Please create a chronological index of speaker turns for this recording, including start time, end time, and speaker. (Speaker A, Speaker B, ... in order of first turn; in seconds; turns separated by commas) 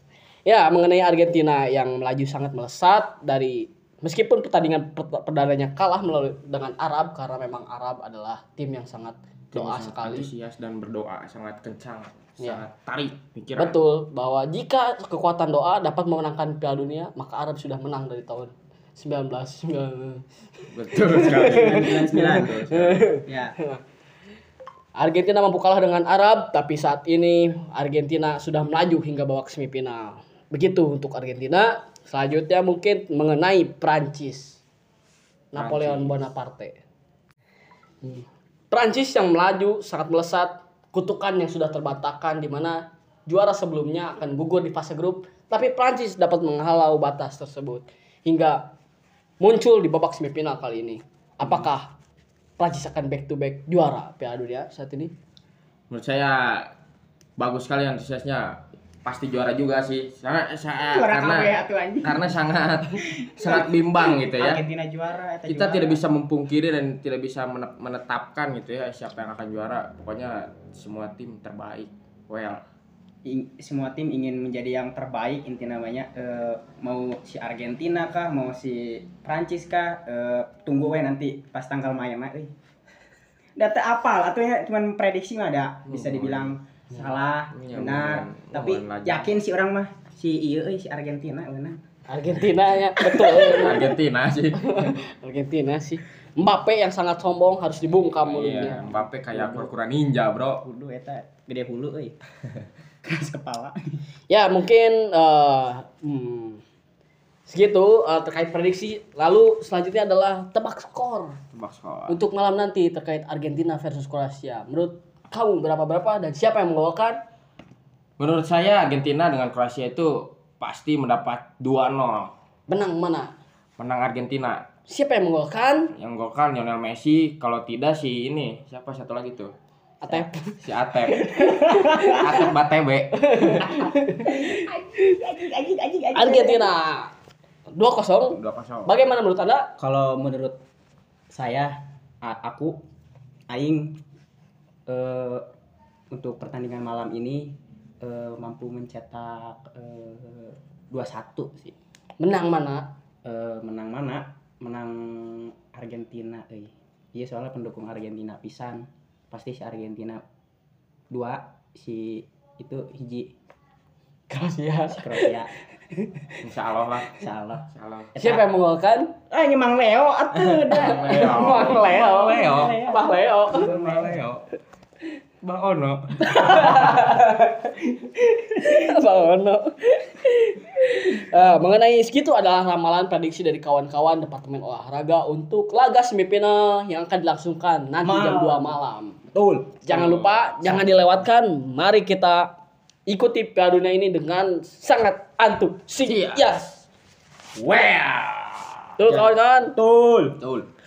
Speaker A: 0.4-10.3, Speaker B: 9.5-13.8, Speaker A: 13.6-20.2, Speaker B: 20.7-23.0, Speaker A: 21.0-23.8, Speaker C: 21.1-23.6, Speaker A: 24.9-34.6, Speaker A: 35.5-36.8, Speaker B: 35.5-36.3, Speaker A: 38.0-48.7, Speaker A: 49.4-51.9, Speaker A: 52.6-55.1, Speaker B: 55.9-56.7, Speaker B: 57.4-64.6, Speaker C: 60.9-62.2, Speaker C: 63.2-66.0, Speaker B: 65.5-72.6, Speaker C: 73.2-82.5, Speaker C: 83.6-91.8, Speaker B: 85.9-86.5, Speaker B: 87.5-89.3, Speaker A: 92.1-94.0, Speaker C: 93.0-93.9, Speaker B: 93.4-94.9, Speaker A: 94.6-98.8, Speaker B: 98.2-100.6, Speaker C: 98.3-99.7, Speaker C: 100.6-102.2, Speaker C: 103.0-103.8, Speaker A: 104.3-106.6, Speaker A: 107.5-111.4, Speaker B: 111.5-112.2, Speaker A: 112.1-117.2, Speaker B: 118.2-122.3, Speaker A: 122.7-123.3, Speaker B: 123.8-124.6, Speaker A: 124.9-125.9, Speaker B: 125.9-129.5, Speaker A: 130.0-130.5, Speaker B: 130.1-133.6, Speaker A: 131.1-132.3, Speaker C: 132.1-132.3, Speaker A: 133.2-134.4, Speaker C: 133.6-136.7, Speaker A: 136.1-137.1, Speaker A: 137.7-139.7, Speaker B: 138.3-138.9, Speaker C: 139.8-140.6, Speaker C: 141.3-142.8, Speaker C: 143.5-143.9, Speaker C: 144.9-145.4, Speaker C: 146.1-147.4, Speaker C: 148.0-151.7, Speaker A: 152.2-152.9, Speaker C: 153.2-160.2, Speaker C: 161.1-163.3, Speaker A: 164.3-165.3, Speaker C: 164.9-165.5, Speaker B: 166.4-168.1, Speaker C: 167.2-168.4, Speaker A: 168.2-169.1, Speaker C: 169.3-174.2, Speaker B: 170.4-172.8, Speaker A: 170.7-173.7, Speaker B: 173.5-174.4, Speaker B: 175.4-177.0, Speaker A: 176.2-189.2, Speaker C: 188.0-188.7, Speaker C: 189.3-189.8, Speaker B: 189.8-190.8, Speaker A: 189.9-192.5, Speaker A: 193.1-196.8, Speaker B: 196.0-196.5, Speaker C: 197.6-198.2, Speaker B: 198.1-198.5, Speaker A: 199.0-199.7, Speaker C: 199.0-200.4, Speaker B: 200.4-200.7